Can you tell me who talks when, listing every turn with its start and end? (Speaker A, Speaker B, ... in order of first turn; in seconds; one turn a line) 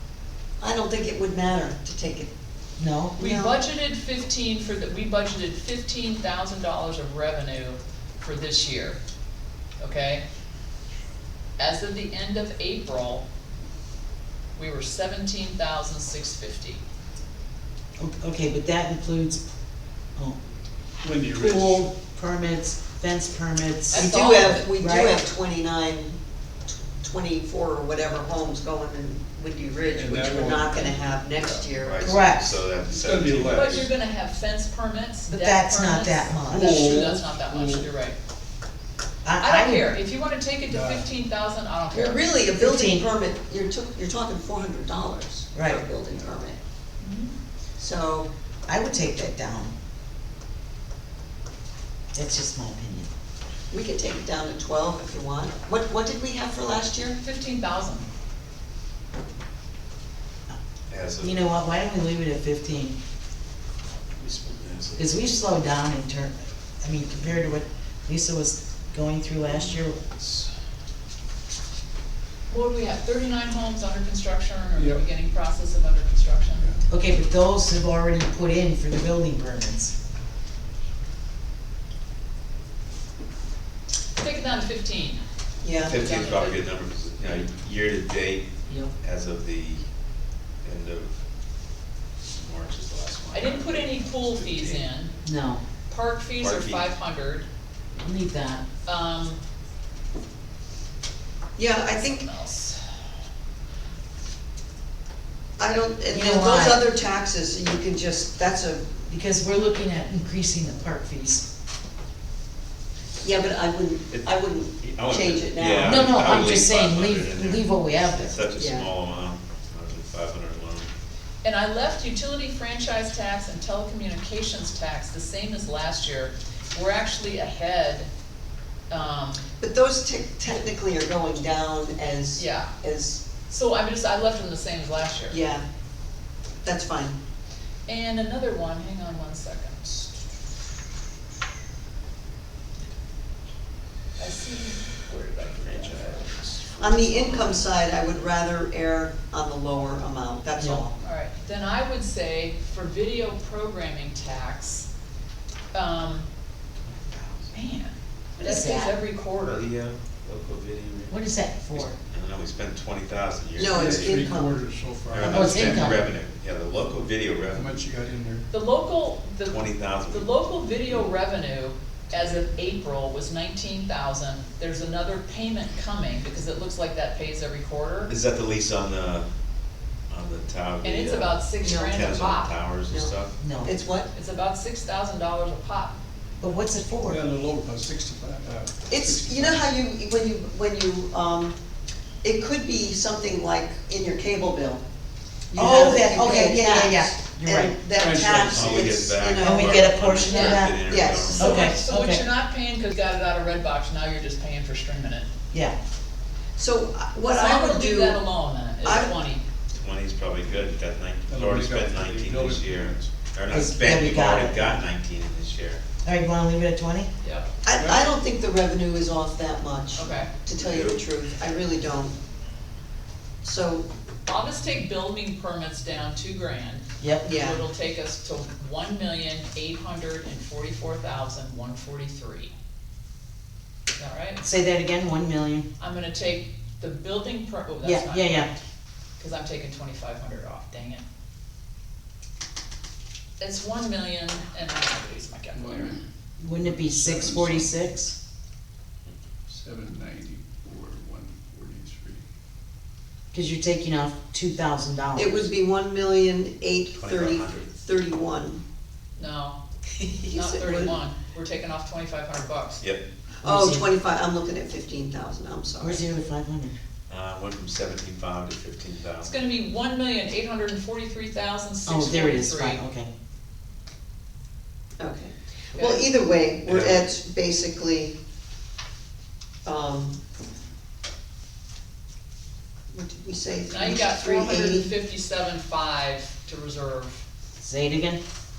Speaker A: 0.6-2.3
Speaker B: 2.8-3.2
Speaker A: 3.2-3.6
Speaker C: 3.2-9.0
Speaker C: 9.8-10.2
Speaker C: 11.6-13.2
Speaker C: 14.6-16.8
Speaker B: 18.0-19.5
Speaker D: 21.0-21.9
Speaker B: 21.3-25.1
Speaker C: 23.9-24.7
Speaker A: 23.9-26.2
Speaker A: 26.7-32.1
Speaker D: 29.9-31.6
Speaker E: 31.8-33.9
Speaker B: 32.0-32.5
Speaker D: 32.8-33.9
Speaker C: 33.5-38.2
Speaker B: 35.3-36.9
Speaker D: 36.5-37.9
Speaker B: 39.2-39.9
Speaker C: 39.4-42.2
Speaker D: 40.7-41.1
Speaker A: 41.9-46.6
Speaker B: 42.5-43.0
Speaker B: 45.5-45.9
Speaker D: 46.1-46.4
Speaker C: 47.0-47.3
Speaker A: 47.8-48.3
Speaker B: 48.7-49.7
Speaker B: 52.1-53.1
Speaker A: 53.7-57.2
Speaker C: 57.2-58.1
Speaker E: 60.9-61.5
Speaker B: 61.2-63.0
Speaker E: 64.2-65.1
Speaker B: 65.0-70.0
Speaker E: 69.8-70.5
Speaker C: 72.5-76.7
Speaker D: 74.8-75.0
Speaker D: 76.5-76.8
Speaker B: 76.9-79.9
Speaker C: 84.2-85.2
Speaker A: 85.6-86.0
Speaker C: 85.8-86.7
Speaker E: 85.9-89.8
Speaker E: 90.6-91.2
Speaker E: 92.3-94.8
Speaker C: 93.3-95.1
Speaker B: 95.2-95.6
Speaker C: 95.9-97.5
Speaker E: 96.4-96.9
Speaker B: 98.0-98.6
Speaker C: 98.8-99.4
Speaker A: 101.6-102.3
Speaker C: 101.9-103.0
Speaker A: 105.6-109.0
Speaker B: 106.1-106.8
Speaker B: 109.1-111.5
Speaker A: 113.2-116.2
Speaker E: 114.1-120.9
Speaker B: 115.8-118.3
Speaker A: 118.5-118.9
Speaker C: 121.4-128.1
Speaker C: 128.9-129.4
Speaker A: 129.6-133.2
Speaker C: 132.4-132.7
Speaker C: 133.5-135.4
Speaker A: 135.3-135.7
Speaker A: 136.6-137.2
Speaker C: 137.9-140.1
Speaker C: 144.2-146.5
Speaker E: 145.6-146.8
Speaker A: 146.8-150.9
Speaker E: 147.3-147.6
Speaker C: 151.0-154.9
Speaker C: 155.7-156.3
Speaker C: 157.5-159.7
Speaker B: 158.4-158.9
Speaker E: 159.2-161.2
Speaker B: 161.1-161.9
Speaker E: 161.7-164.3
Speaker A: 163.6-164.6
Speaker D: 163.7-166.0
Speaker E: 165.1-167.8
Speaker B: 165.2-166.0
Speaker D: 167.5-168.5
Speaker C: 168.5-178.1
Speaker E: 169.4-170.3
Speaker E: 172.1-172.4
Speaker E: 178.1-179.3
Speaker E: 180.1-183.4
Speaker C: 180.8-182.6
Speaker A: 181.6-182.2
Speaker A: 182.9-184.1
Speaker B: 183.4-183.7
Speaker C: 184.1-186.0
Speaker B: 186.4-187.2
Speaker D: 187.0-189.7
Speaker A: 188.9-191.6
Speaker A: 192.2-194.8
Speaker A: 195.5-200.0
Speaker B: 195.6-197.8
Speaker D: 197.9-198.9
Speaker E: 198.4-201.7
Speaker B: 199.4-202.2
Speaker C: 200.3-200.6
Speaker A: 200.9-201.6
Speaker C: 201.4-205.3
Speaker B: 205.5-205.8
Speaker A: 206.6-208.2
Speaker C: 207.3-209.4
Speaker A: 208.8-209.1
Speaker E: 209.8-215.8
Speaker D: 211.3-213.0
Speaker B: 213.5-214.8
Speaker B: 216.0-217.1
Speaker C: 217.2-217.5
Speaker A: 217.6-222.2
Speaker D: 217.7-218.1
Speaker C: 219.9-220.3
Speaker E: 220.6-221.0
Speaker A: 223.4-223.9
Speaker C: 224.3-232.5
Speaker A: 227.2-227.6
Speaker C: 234.0-234.4
Speaker B: 234.4-235.7
Speaker C: 235.8-238.4
Speaker B: 237.8-238.5
Speaker C: 239.2-241.0
Speaker C: 243.4-246.0
Speaker D: 245.5-247.7
Speaker B: 246.4-248.2
Speaker D: 249.5-252.2
Speaker B: 253.3-255.5
Speaker A: 255.2-258.6
Speaker E: 256.9-257.8
Speaker C: 259.2-259.6
Speaker A: 260.0-261.0
Speaker C: 260.3-262.8
Speaker B: 263.4-263.9
Speaker A: 263.4-266.0
Speaker B: 265.8-266.8
Speaker E: 267.1-269.4
Speaker C: 269.2-272.8
Speaker B: 271.9-273.1
Speaker A: 275.0-278.2
Speaker C: 275.8-276.1
Speaker E: 276.7-277.0
Speaker A: 279.6-280.2
Speaker A: 282.9-284.9
Speaker C: 283.7-287.2
Speaker B: 287.6-288.2